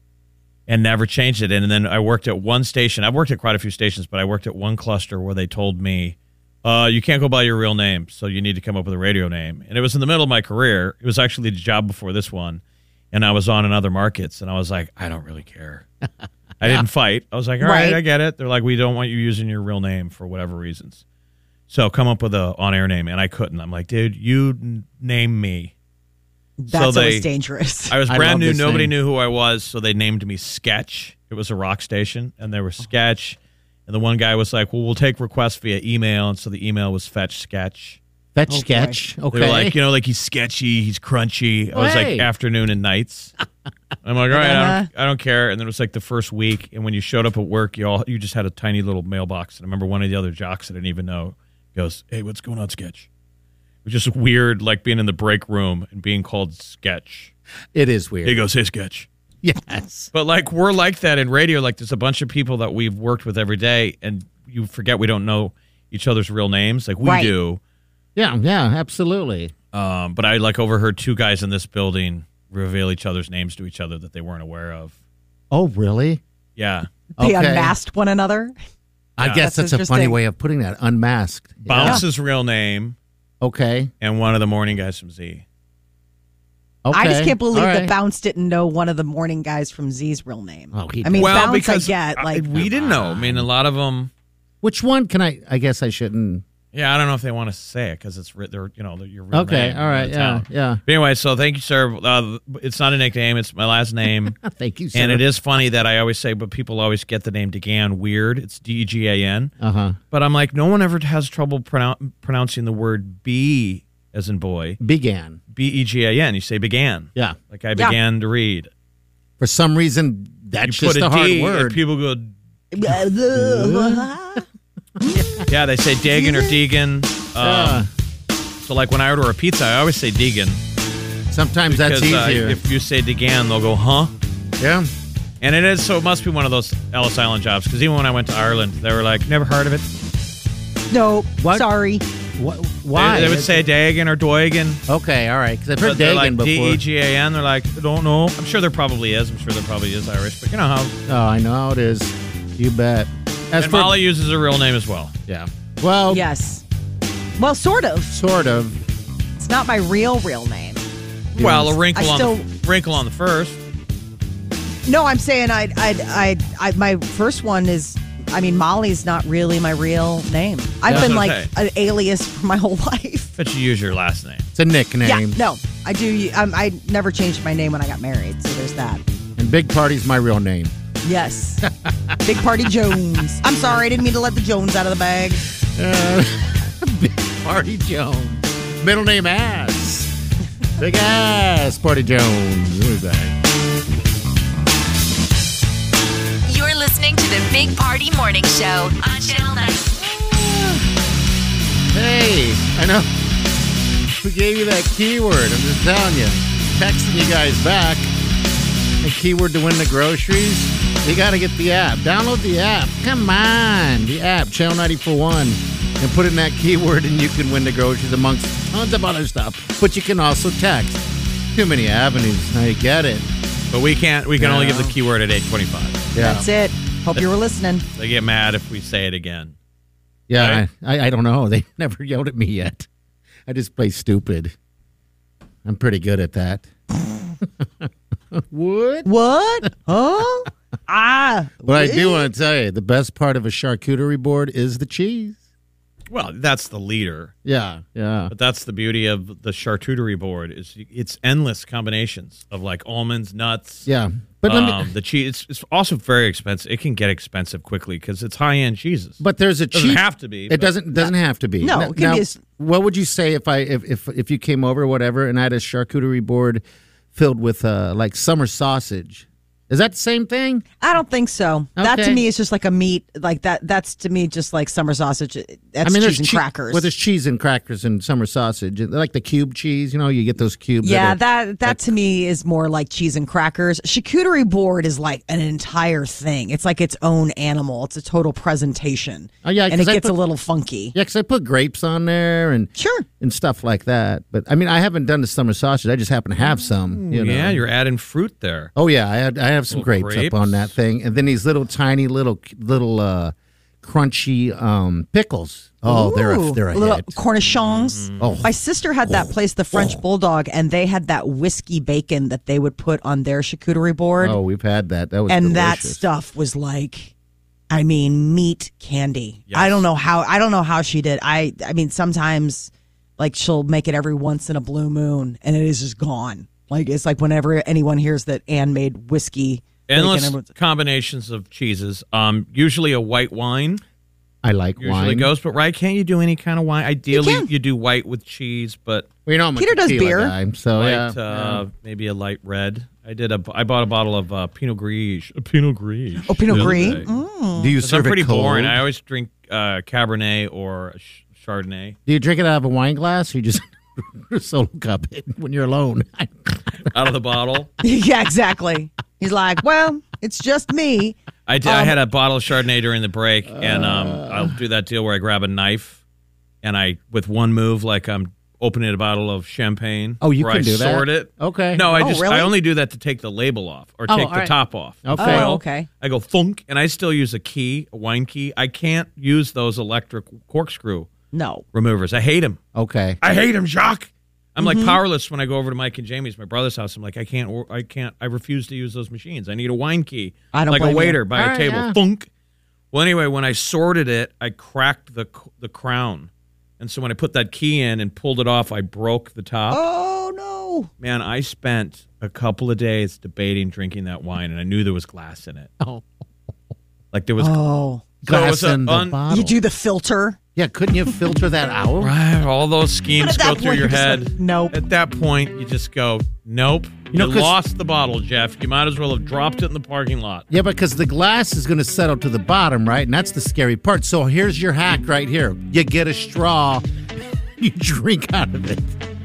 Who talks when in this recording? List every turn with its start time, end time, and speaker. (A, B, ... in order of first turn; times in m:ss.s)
0:00.7-0:15.8 A
0:16.6-0:21.0 A
0:17.6-0:18.0 B
0:21.7-0:25.7 A
0:26.6-0:27.9 B
0:26.7-0:27.3 A
0:27.9-0:38.0 A
0:28.0-0:28.9 C
0:38.3-0:39.8 C
0:38.5-0:39.0 B
0:39.3-0:43.3 A
0:41.7-0:42.3 C
0:44.0-0:53.1 A
0:44.3-0:44.9 B
0:53.8-0:57.3 A
0:57.7-0:58.4 C
0:58.2-0:59.1 A
0:59.4-1:00.1 C
1:00.1-1:07.6 A
1:07.0-1:07.3 B
1:08.2-1:09.5 C
1:09.7-1:14.9 A
1:15.5-1:16.2 C
1:16.6-1:16.9 A
1:17.2-1:17.7 C
1:17.2-1:18.5 B
1:19.2-1:22.0 C
1:19.4-1:20.2 B
1:21.6-1:23.0 A
1:23.4-1:23.9 C
1:24.0-1:25.4 A
1:26.8-1:27.9 C
1:26.9-1:32.6 B
1:30.7-1:31.6 C
1:31.2-1:34.1 A
1:32.5-1:33.5 C
1:34.6-1:36.4 C
1:36.7-1:44.4 A
1:39.3-1:40.8 C
1:44.4-1:45.2 C
1:44.9-1:49.5 A
1:49.6-1:50.0 C
1:50.1-1:54.8 A
1:54.8-1:55.4 C
1:55.5-1:58.7 A
1:59.4-2:01.8 C
2:00.6-2:02.3 A
2:02.7-2:04.4 B
2:03.3-2:04.1 C
2:05.0-2:05.4 B
2:05.1-2:05.4 C
2:05.5-2:07.8 A
2:06.1-2:06.5 B
2:07.4-2:07.9 C
2:08.6-2:10.6 A
2:11.3-2:12.6 C
2:11.7-2:14.1 A
2:14.6-2:14.9 C
2:15.4-2:19.9 A
2:20.9-2:22.0 B
2:21.4-2:21.7 C
2:22.4-2:23.6 C
2:22.9-2:24.8 A
2:24.9-2:26.8 C
2:25.8-2:30.9 A
2:31.1-2:34.0 C
2:33.6-2:35.1 A
2:35.3-2:36.2 C
2:36.1-2:36.6 B
2:37.4-2:38.1 B
2:38.1-2:38.8 C
2:39.4-2:40.8 B
2:41.4-2:43.6 A
2:41.4-2:41.7 C
2:41.4-2:42.4 B
2:44.8-2:53.3 B
2:50.9-2:51.2 C
2:50.9-2:51.5 A
2:53.4-2:54.5 A
2:54.5-2:55.4 C
2:55.0-2:59.0 B
2:59.4-3:00.7 C
3:01.0-3:01.6 B
3:01.6-3:02.2 C
3:02.2-3:05.4 B
3:05.7-3:10.1 C
3:10.8-3:13.3 C
3:16.4-3:19.9 D
3:20.0-3:20.8 C
3:21.9-3:23.1 C
3:24.2-3:28.1 C
3:29.0-3:43.3 C
3:43.7-3:46.1 A
3:44.4-3:44.9 C
3:46.1-3:46.4 C
3:46.2-3:47.8 B
3:48.0-3:49.5 A
3:50.3-3:52.9 C
3:50.3-3:50.6 A
3:53.5-3:54.5 C
3:55.6-3:56.7 C
3:57.4-3:59.1 C
3:59.0-4:02.3 B
4:01.6-4:05.4 C
4:06.1-4:07.3 A
4:07.4-4:08.3 C
4:08.3-4:13.8 A
4:13.8-4:14.9 C
4:14.4-4:19.2 A
4:19.2-4:26.6 C
4:19.7-4:20.7 A
4:20.9-4:22.4 B
4:27.1-4:30.6 C
4:30.8-4:36.9 B
4:31.8-4:32.2 C
4:35.8-4:41.8 C
4:40.8-4:50.9 B
4:49.4-4:50.1 C
4:50.9-4:57.6 C
4:52.8-4:53.0 B
4:56.9-4:58.7 A
4:58.8-5:07.2 C
4:59.7-5:00.7 A
5:05.8-5:14.4 B
5:07.6-5:08.4 A
5:08.2-5:08.5 C
5:14.2-5:16.0 C
5:15.3-5:17.1 B
5:17.7-5:30.5 B
5:19.5-5:19.8 A
5:29.9-5:33.8 A
5:34.4-5:35.3 C
5:34.8-5:39.1 A
5:37.1-5:37.5 B
5:39.2-5:41.6 C
5:39.6-5:40.3 B
5:40.8-5:47.1 A
5:46.3-5:47.7 B
5:46.5-5:47.0 C
5:47.6-5:48.8 C
5:47.8-5:52.0 A
5:52.1-5:56.9 C
5:56.9-5:57.7 A
5:57.8-6:02.0 B
6:01.4-6:06.0 A
6:03.5-6:04.5 C
6:06.6-6:21.1 A
6:10.2-6:12.0 C
6:11.9-6:12.5 B
6:14.1-6:15.5 C
6:15.2-6:15.9 B
6:21.3-6:21.6 B
6:21.7-6:22.6 A
6:22.7-6:23.2 C
6:23.2-6:32.3 A
6:24.6-6:25.0 B
6:30.5-6:31.2 B
6:31.3-6:32.0 C
6:32.9-6:39.8 A
6:39.7-6:40.9 B
6:41.0-6:45.7 A
6:45.8-6:46.0 C
6:47.1-6:47.6 A
6:47.4-6:48.0 B
6:48.2-6:49.6 C
6:48.2-6:49.2 A
6:49.3-6:50.4 B
6:50.6-6:52.1 C
6:52.0-7:00.4 A
6:53.2-6:54.7 B
6:57.1-6:57.5 C
7:00.5-7:06.8 C
7:07.6-7:08.9 C